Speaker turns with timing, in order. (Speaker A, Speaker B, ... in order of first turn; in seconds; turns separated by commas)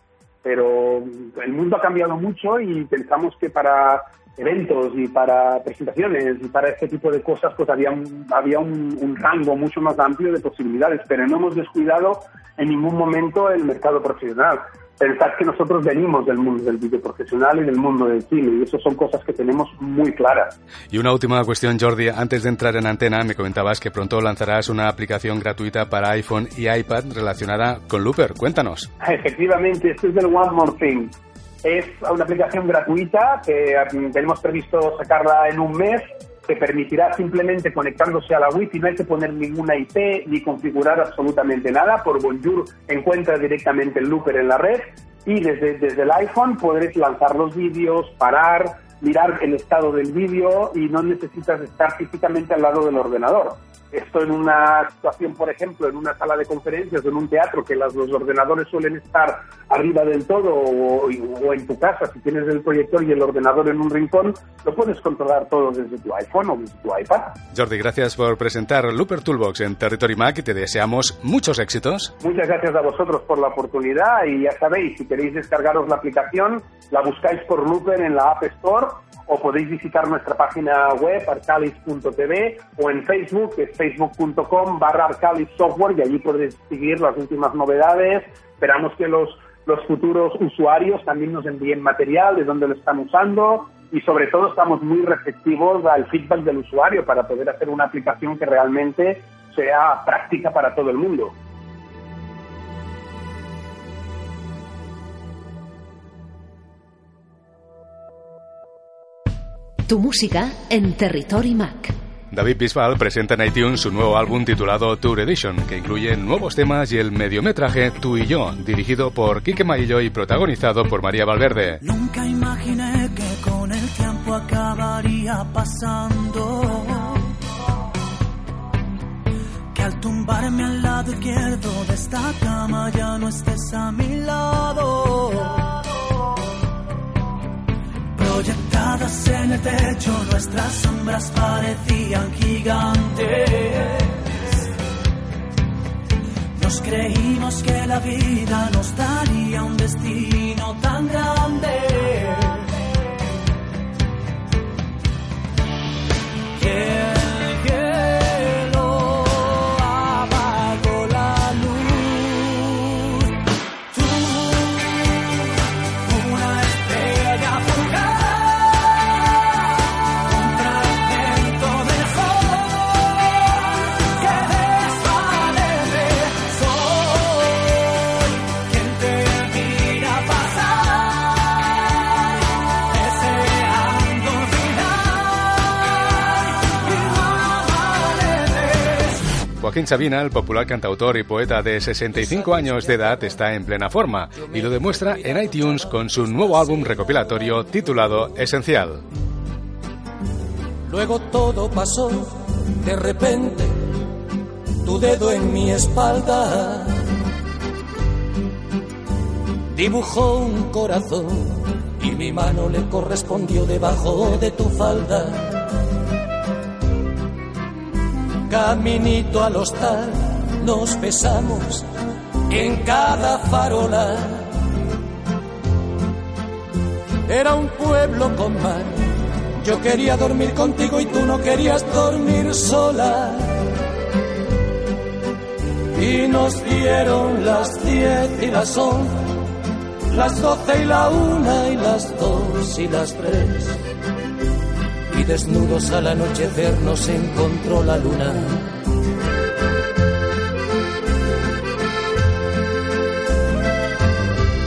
Speaker A: 0.4-20.6, Speaker B: 20.9-28.9, Speaker A: 29.0-67.3, Speaker B: 67.5-72.1, Speaker A: 72.2-101.3, Speaker C: 109.9-111.9, Speaker B: 112.3-121.8, Speaker D: 121.9-127.1, Speaker D: 129.8-135.6, Speaker D: 138.2-144.1, Speaker D: 146.6-152.6, Speaker E: 156.7-159.4, Speaker D: 160.8-161.3, Speaker E: 161.0-161.9, Speaker D: 166.2-167.9, Speaker D: 170.4-172.4, Speaker D: 174.9-175.9, Speaker D: 178.9-180.4, Speaker B: 189.6-199.1, Speaker E: 192.3-193.1, Speaker E: 194.3-196.9, Speaker E: 200.9-203.9, Speaker E: 204.8-207.1, Speaker E: 209.7-215.7, Speaker E: 218.5-221.9, Speaker E: 222.5-224.6, Speaker E: 227.3-233.7, Speaker E: 235.9-239.3, Speaker E: 240.1-243.8, Speaker E: 245.1-248.7